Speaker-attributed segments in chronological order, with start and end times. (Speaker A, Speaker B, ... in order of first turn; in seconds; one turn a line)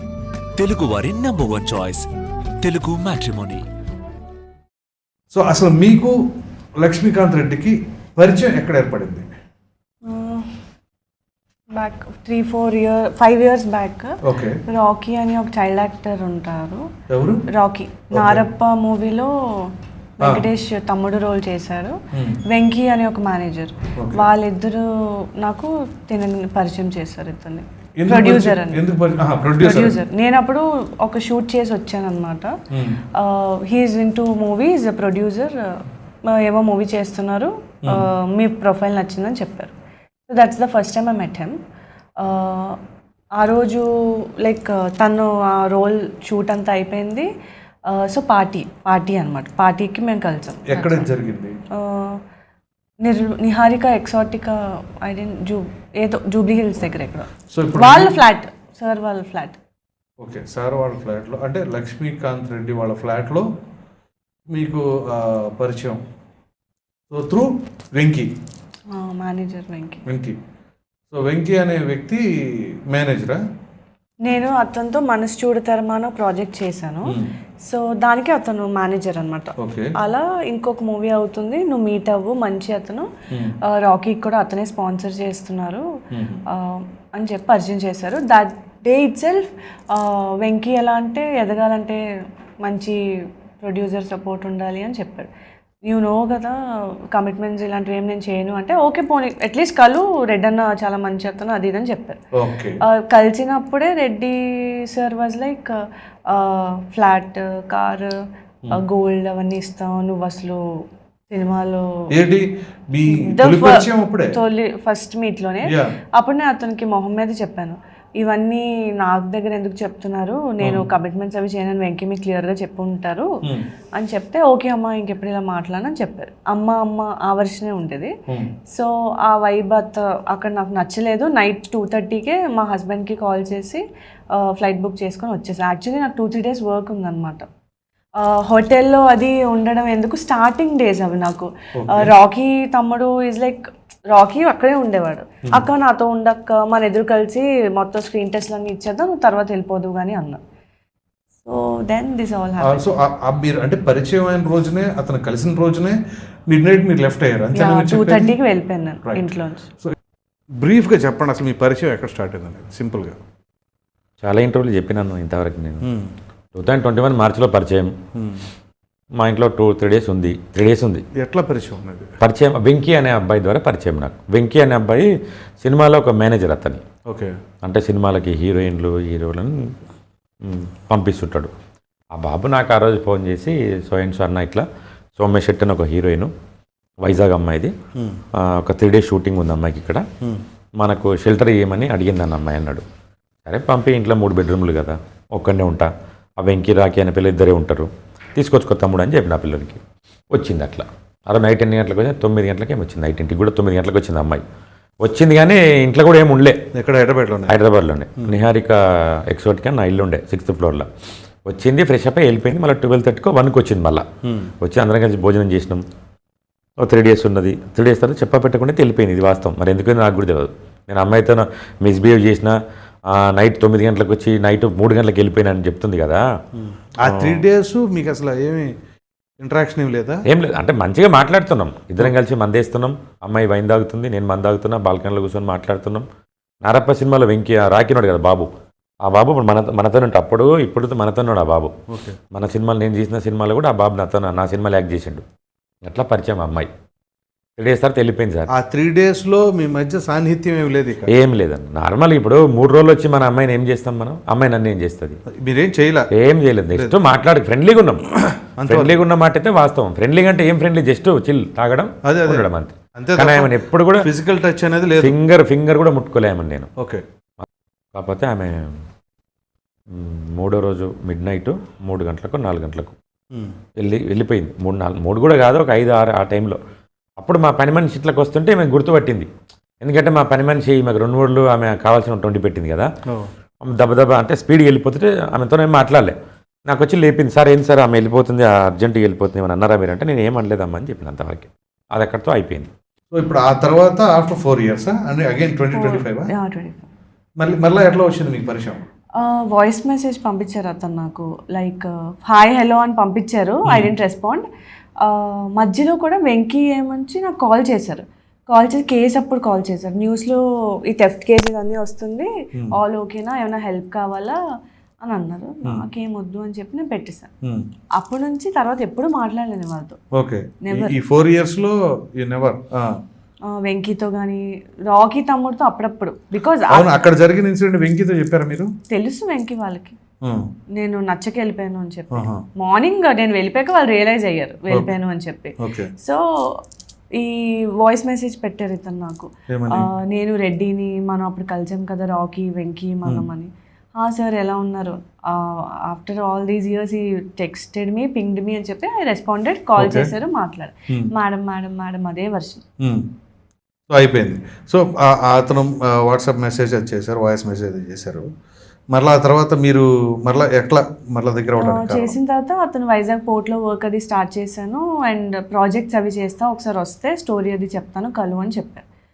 Speaker A: 0.6-2.1
Speaker A: 2.6-3.6
Speaker B: 5.3-6.2
Speaker B: 6.8-9.3
Speaker C: 10.0-10.6
Speaker C: 11.7-16.9
Speaker B: 14.2-14.6
Speaker B: 17.1-17.4
Speaker C: 17.5-21.9
Speaker B: 18.1-18.4
Speaker B: 22.1-22.4
Speaker C: 22.5-28.8
Speaker B: 24.0-24.2
Speaker B: 28.0-30.0
Speaker C: 29.6-32.5
Speaker B: 32.7-33.0
Speaker C: 33.1-39.7
Speaker C: 40.3-41.5
Speaker C: 42.2-42.8
Speaker C: 43.4-47.3
Speaker C: 47.9-51.1
Speaker B: 50.7-51.5
Speaker C: 51.7-52.2
Speaker C: 53.0-59.6
Speaker B: 57.5-58.2
Speaker B: 60.2-63.5
Speaker B: 64.5-66.0
Speaker B: 67.1-68.3
Speaker C: 68.9-70.0
Speaker B: 70.0-70.4
Speaker B: 71.1-73.4
Speaker C: 74.2-83.1
Speaker B: 79.6-79.9
Speaker C: 83.6-85.8
Speaker B: 86.1-86.4
Speaker C: 86.5-92.0
Speaker C: 92.6-93.0
Speaker C: 93.6-95.3
Speaker C: 95.8-96.6
Speaker C: 97.1-102.2
Speaker B: 102.3-102.8
Speaker C: 102.8-108.1
Speaker C: 108.7-110.6
Speaker C: 111.3-111.8
Speaker B: 112.1-114.4
Speaker C: 113.1-123.3
Speaker B: 115.7-115.9
Speaker C: 123.9-128.1
Speaker C: 128.7-137.4
Speaker C: 138.2-150.4
Speaker B: 141.8-142.1
Speaker C: 151.4-152.8
Speaker B: 152.6-158.3
Speaker C: 157.5-159.7
Speaker B: 159.0-159.9
Speaker B: 160.6-163.2
Speaker D: 164.2-165.9
Speaker B: 165.8-166.1
Speaker D: 166.5-167.9
Speaker B: 168.2-168.4
Speaker D: 169.2-171.0
Speaker B: 171.2-172.1
Speaker D: 172.2-175.1
Speaker D: 175.6-176.8
Speaker B: 177.1-177.3
Speaker D: 177.6-179.5
Speaker D: 180.4-181.5
Speaker D: 182.1-184.6
Speaker D: 185.2-186.3
Speaker D: 187.0-187.7
Speaker D: 188.3-190.0
Speaker D: 190.8-192.8
Speaker D: 193.4-195.9
Speaker D: 196.4-199.8
Speaker D: 200.3-204.4
Speaker D: 205.0-206.6
Speaker B: 206.7-207.6
Speaker D: 207.5-210.9
Speaker D: 211.4-214.0
Speaker D: 214.6-215.8
Speaker D: 216.8-222.5
Speaker D: 223.1-226.2
Speaker B: 226.7-228.7
Speaker D: 227.0-227.4
Speaker B: 229.4-230.2
Speaker D: 230.2-236.1
Speaker D: 236.6-238.5
Speaker D: 239.0-241.7
Speaker B: 241.9-242.2
Speaker D: 242.3-245.2
Speaker D: 245.8-246.7
Speaker D: 247.6-248.5
Speaker B: 248.6-251.1
Speaker D: 251.1-255.2
Speaker B: 255.3-256.1
Speaker D: 256.1-258.1
Speaker B: 258.6-259.0
Speaker D: 258.6-264.1
Speaker B: 262.0-265.2
Speaker D: 265.0-266.7
Speaker D: 267.4-268.7
Speaker D: 269.9-272.9
Speaker D: 273.8-276.6
Speaker D: 277.2-279.3
Speaker D: 279.8-282.9
Speaker D: 283.6-286.1
Speaker D: 286.7-292.7
Speaker B: 293.1-296.3
Speaker C: 295.7-296.9
Speaker B: 297.4-298.8
Speaker C: 299.1-304.4
Speaker B: 303.7-303.9
Speaker C: 305.0-314.4
Speaker C: 315.0-317.3
Speaker C: 317.9-320.0
Speaker B: 320.1-323.0
Speaker C: 320.6-320.9
Speaker C: 323.5-327.0
Speaker B: 326.7-328.7
Speaker C: 328.9-329.9
Speaker B: 330.2-330.5
Speaker C: 330.7-336.6
Speaker B: 332.1-332.4
Speaker B: 335.6-335.9
Speaker C: 337.1-352.6
Speaker B: 339.5-339.9
Speaker B: 349.8-350.1
Speaker B: 352.8-353.1
Speaker B: 353.9-358.3
Speaker B: 358.9-362.2
Speaker C: 361.6-368.8